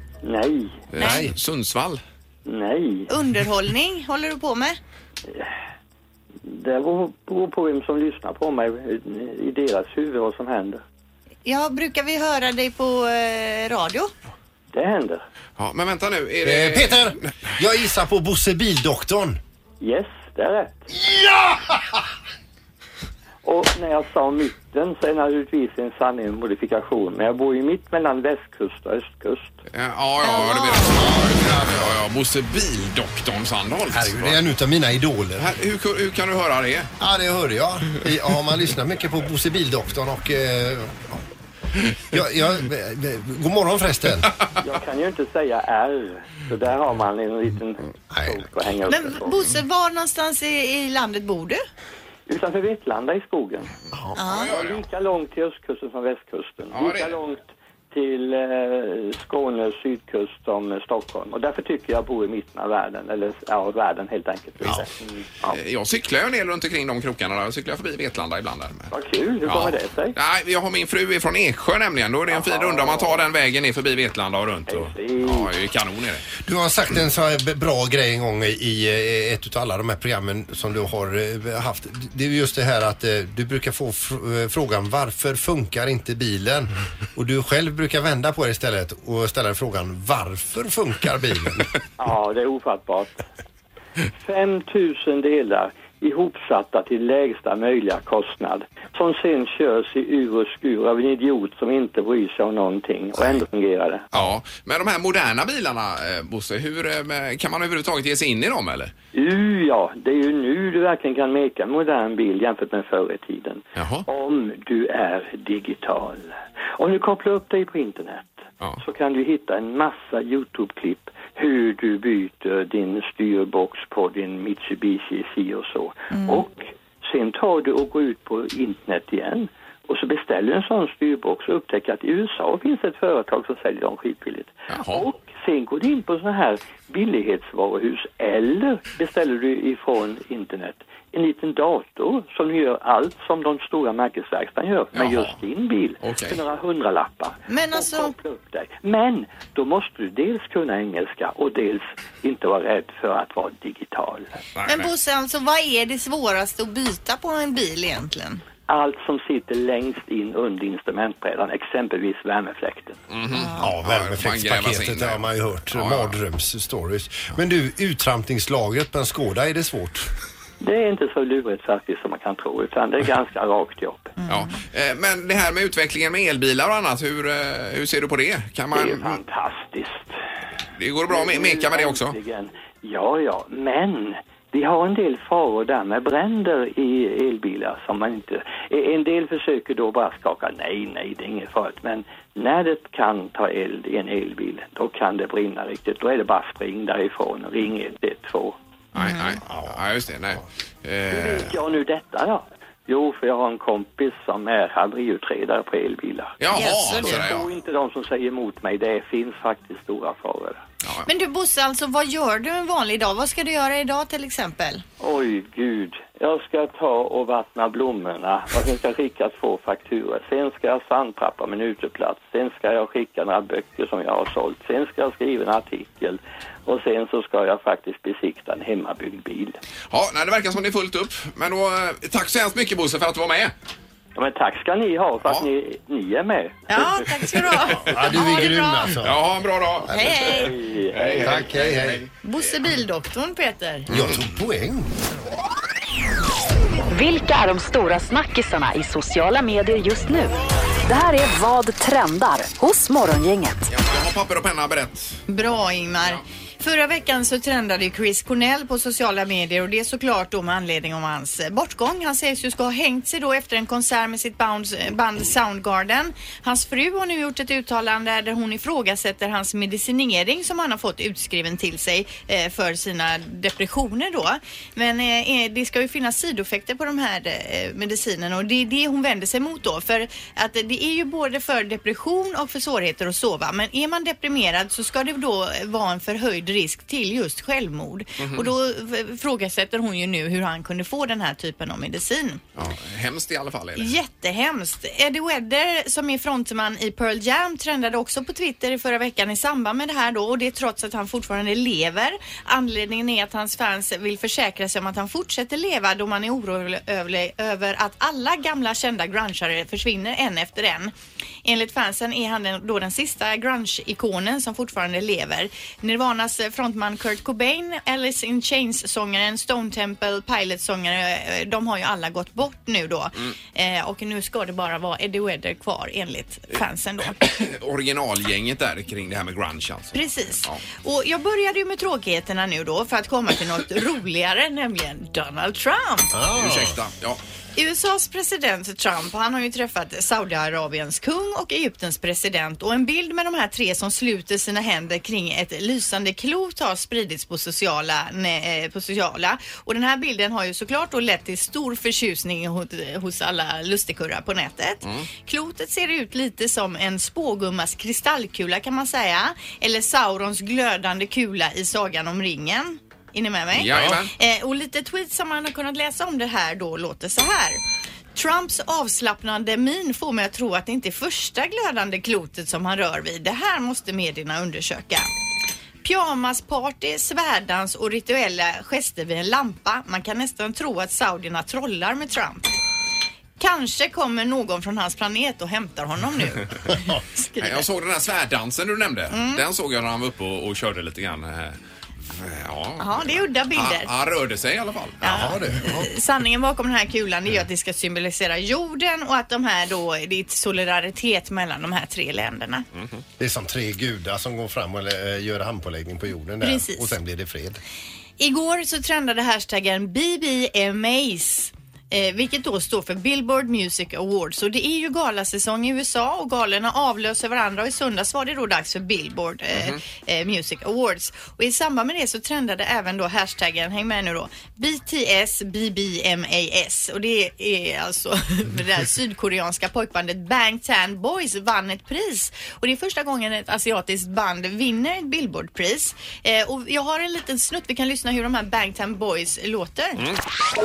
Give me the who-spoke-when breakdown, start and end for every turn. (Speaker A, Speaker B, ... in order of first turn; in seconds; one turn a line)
Speaker A: 0.2-0.8
Speaker B: 0.9-2.0
Speaker C: 1.0-1.3
Speaker D: 1.0-1.4
Speaker A: 2.5-3.1
Speaker C: 3.1-4.8
Speaker A: 6.4-10.8
Speaker C: 11.5-14.1
Speaker A: 14.7-15.2
Speaker B: 15.6-17.3
Speaker D: 16.4-19.4
Speaker A: 19.8-20.8
Speaker D: 20.9-22.0
Speaker A: 23.4-29.6
Speaker B: 29.7-34.4
Speaker C: 30.2-30.9
Speaker D: 30.9-32.0
Speaker D: 33.9-35.5
Speaker B: 35.4-36.9
Speaker D: 37.0-41.2
Speaker D: 42.0-44.3
Speaker A: 44.6-49.5
Speaker D: 48.1-48.5
Speaker C: 48.9-51.6
Speaker A: 52.3-53.7
Speaker C: 54.2-54.5
Speaker B: 54.2-54.8
Speaker A: 54.4-65.6
Speaker B: 56.7-57.2
Speaker B: 65.5-68.9
Speaker A: 68.9-70.2
Speaker B: 69.4-76.3
Speaker A: 72.3-73.3
Speaker A: 74.7-75.5
Speaker D: 76.4-91.7
Speaker A: 92.0-93.2
Speaker A: 94.1-104.1
Speaker B: 104.1-108.9
Speaker A: 109.2-154.4
Speaker B: 113.8-114.0
Speaker B: 134.7-135.1
Speaker B: 144.9-145.4
Speaker B: 146.0-146.4
Speaker C: 147.5-148.2
Speaker B: 154.6-154.9
Speaker C: 154.7-158.4
Speaker A: 158.7-163.0
Speaker B: 163.1-166.2
Speaker C: 163.3-163.7
Speaker D: 163.6-170.1
Speaker A: 170.6-174.1
Speaker C: 174.2-174.5
Speaker B: 174.3-179.2
Speaker A: 178.7-180.1
Speaker B: 180.8-182.2
Speaker A: 181.1-198.6
Speaker B: 198.9-201.6
Speaker C: 199.0-199.4
Speaker A: 201.1-210.6
Speaker B: 206.4-207.5
Speaker C: 206.5-207.3
Speaker C: 211.1-214.8
Speaker A: 215.0-229.6
Speaker B: 229.9-233.5
Speaker A: 234.2-237.5
Speaker C: 236.7-239.0
Speaker D: 237.8-239.2
Speaker B: 239.0-242.1
Speaker D: 239.8-240.1
Speaker C: 239.9-240.5
Speaker A: 240.2-241.7
Speaker D: 241.2-242.1
Speaker C: 242.2-243.9
Speaker B: 243.9-244.2
Speaker D: 243.9-244.9
Speaker E: 246.9-253.7
Speaker B: 253.7-255.2
Speaker C: 255.3-292.4
Speaker B: 288.2-288.5
Speaker B: 292.6-294.0
Speaker C: 293.8-310.9
Speaker C: 311.4-327.2
Speaker B: 327.1-330.6
Speaker C: 329.9-336.1
Speaker D: 336.1-336.8
Speaker B: 336.4-337.2
Speaker C: 337.6-367.6
Speaker B: 363.5-364.1
Speaker D: 363.7-364.0
Speaker C: 368.1-375.1
Speaker C: 375.8-382.5
Speaker C: 383.4-387.6
Speaker B: 387.4-391.6
Speaker C: 389.1-389.4
Speaker B: 392.1-395.4
Speaker C: 392.8-393.9
Speaker C: 395.0-402.7
Speaker D: 395.1-395.9
Speaker D: 403.2-407.6
Speaker C: 406.4-406.9
Speaker C: 408.2-440.0
Speaker B: 419.6-419.8